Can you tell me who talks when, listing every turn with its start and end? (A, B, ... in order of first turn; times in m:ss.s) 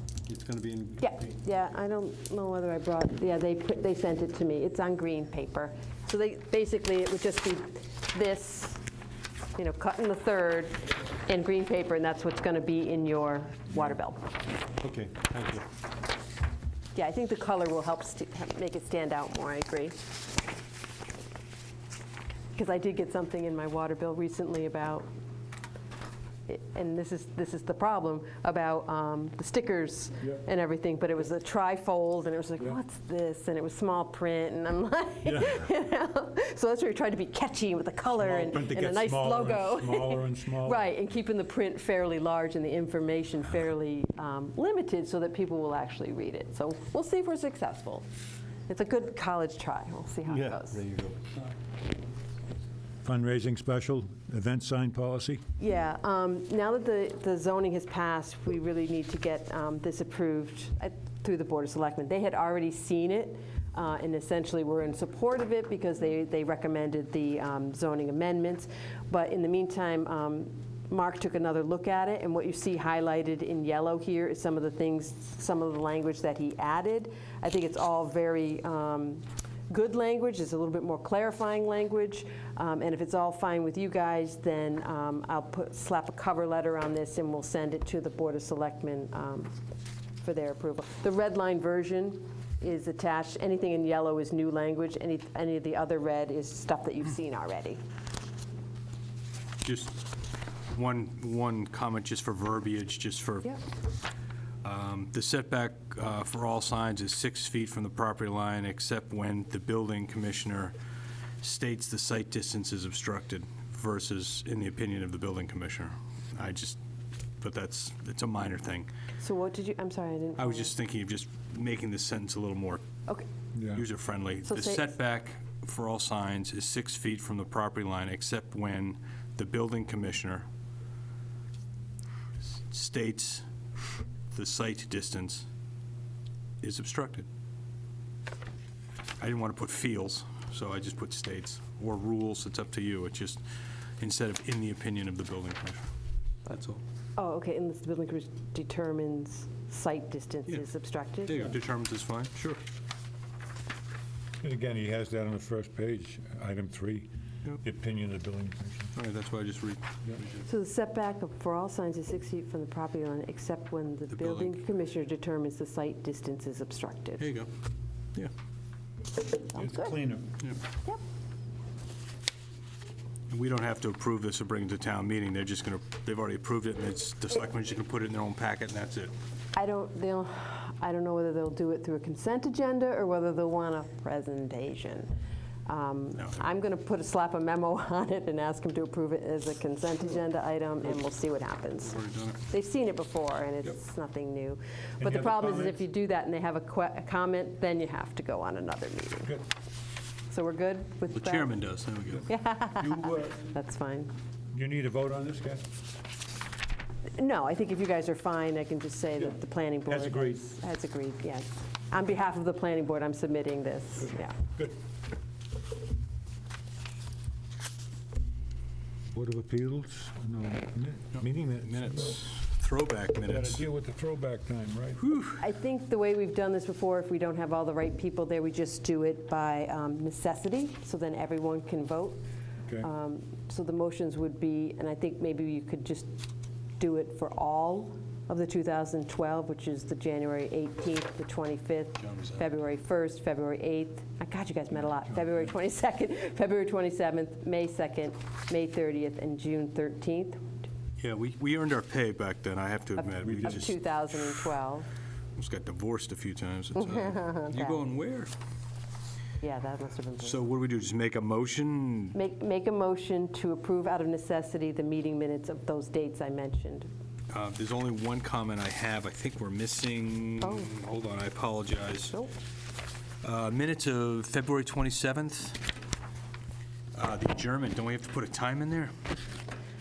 0:00.3-0:01.3 A
0:01.0-0:08.8 B
0:09.6-0:14.3 B
0:14.8-0:15.6 A
0:17.0-0:20.0 B
0:22.6-0:25.1 B
0:26.5-0:48.1 B
0:35.3-0:35.5 C
0:38.2-0:40.8 C
0:48.7-0:50.8 B
0:50.3-0:51.2 A
0:53.0-0:55.4 C
0:55.6-1:29.6 B
1:30.2-1:37.8 B
1:39.6-1:40.1 D
1:40.7-1:43.6 D
1:44.6-1:50.7 D
1:51.4-1:56.8 D
1:57.4-1:58.9 D
1:59.2-2:00.7 B
2:00.4-2:02.8 D
2:03.5-2:03.8 C
2:03.7-2:10.5 D
2:04.4-2:04.9 B
2:12.6-2:13.5 D
2:14.3-2:15.5 D
2:16.6-2:17.3 D
2:19.2-2:23.4 D
2:24.0-2:25.9 D
2:26.5-2:26.8 D
2:27.2-2:31.4 B
2:31.3-2:32.6 D
2:34.4-2:38.9 C
2:39.0-2:40.5 D
2:40.4-2:47.3 B
2:44.1-2:44.6 D
2:47.2-2:47.5 D
2:49.5-2:50.0 B
2:49.5-2:50.3 C
2:53.3-2:59.1 D
2:59.5-3:05.1 B
3:05.7-3:19.4 B
3:11.8-3:12.4 D
3:15.0-3:15.8 C
3:20.3-3:21.6 B
3:21.1-3:22.3 D
3:22.3-3:24.1 B
3:22.8-3:23.4 C
3:24.5-3:25.7 C
3:27.2-3:34.4 B
3:29.9-3:30.4 C
3:34.0-3:34.7 C
3:39.1-3:42.2 C
3:41.1-3:43.6 D
3:43.3-3:45.0 C
3:45.0-3:45.4 D
3:45.4-3:52.2 B
3:52.8-3:56.1 B
3:56.8-4:10.4 B
4:02.0-4:02.5 D
4:11.0-4:13.8 D
4:13.0-4:14.9 B
4:15.4-4:18.3 D
4:16.8-4:17.8 B
4:19.4-4:20.4 B
4:20.2-4:22.2 D
4:22.2-4:26.9 B
4:27.3-4:32.1 D
4:30.4-4:30.7 B
4:33.2-4:35.6 D
4:37.0-4:38.9 D